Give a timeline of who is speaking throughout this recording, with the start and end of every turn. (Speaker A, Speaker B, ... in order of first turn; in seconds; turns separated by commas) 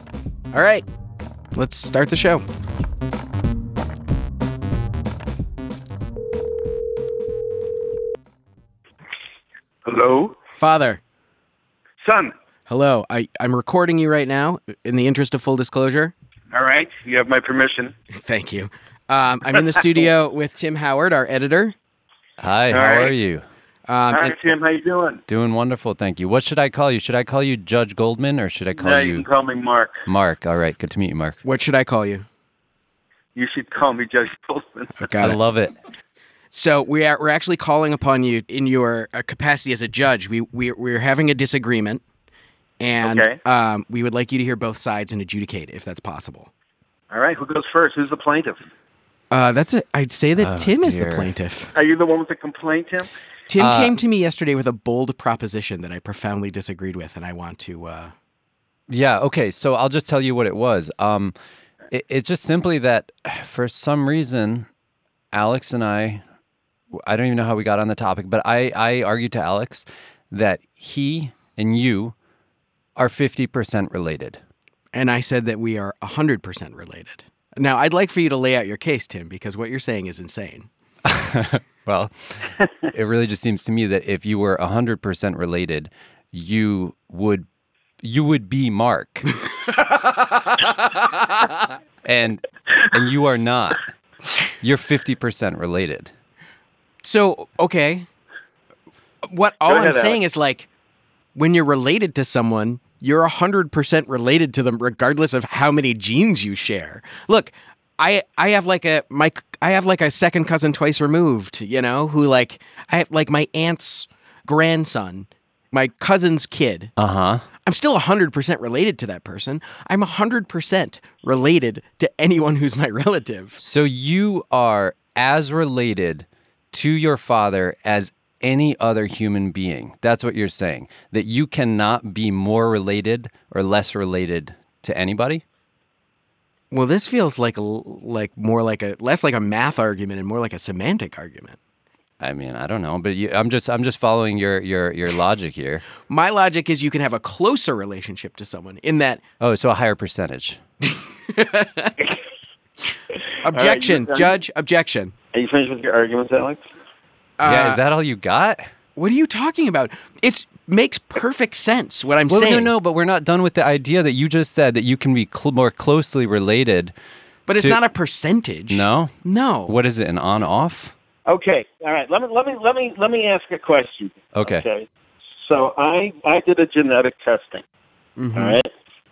Speaker A: 0.5-0.8, Speaker A: 1.5-2.4, Speaker B: 9.8-10.4, Speaker A: 10.6-11.0, Speaker B: 12.0-12.3, Speaker A: 12.7-16.1, Speaker B: 16.5-17.9, Speaker A: 18.1-21.7, Speaker C: 22.4-23.4, Speaker B: 22.7-23.1, Speaker A: 23.9-24.5, Speaker B: 24.1-25.2, Speaker C: 25.3-29.2, Speaker B: 28.8-29.9, Speaker C: 30.1-31.4, Speaker A: 31.4-32.2, Speaker B: 33.4-35.1, Speaker A: 35.0-35.4, Speaker C: 35.2-35.7, Speaker A: 36.5-42.0, Speaker A: 42.8-46.5, Speaker B: 43.0-43.4, Speaker B: 47.1-48.6, Speaker A: 49.3-51.7, Speaker C: 50.4-51.3, Speaker B: 51.7-53.1, Speaker A: 53.5-58.1, Speaker C: 53.6-53.9, Speaker C: 58.9-61.3, Speaker C: 61.9-64.7, Speaker C: 65.3-66.2, Speaker C: 67.0-72.1, Speaker C: 73.0-74.4, Speaker A: 74.9-80.7, Speaker C: 81.1-87.5, Speaker C: 88.0-89.3, Speaker A: 89.7-91.2, Speaker C: 92.0-93.8, Speaker C: 94.6-96.1, Speaker A: 97.0-98.1, Speaker A: 99.2-100.7, Speaker B: 99.7-100.2, Speaker A: 101.3-116.9, Speaker C: 117.0-117.4, Speaker A: 117.6-123.6, Speaker C: 123.6-135.4, Speaker A: 136.7-141.6, Speaker C: 142.2-145.8, Speaker A: 146.1-149.2, Speaker C: 149.4-150.6, Speaker A: 150.9-151.9, Speaker A: 153.4-155.1, Speaker B: 153.5-154.3, Speaker B: 155.3-156.6, Speaker A: 157.4-157.8, Speaker C: 157.4-158.6, Speaker A: 158.9-162.7, Speaker C: 162.3-166.9, Speaker A: 167.5-169.7, Speaker C: 168.7-169.1, Speaker C: 169.7-170.9, Speaker B: 171.3-174.9, Speaker C: 174.3-174.6, Speaker B: 175.4-177.6, Speaker A: 178.2-178.6, Speaker B: 178.3-178.7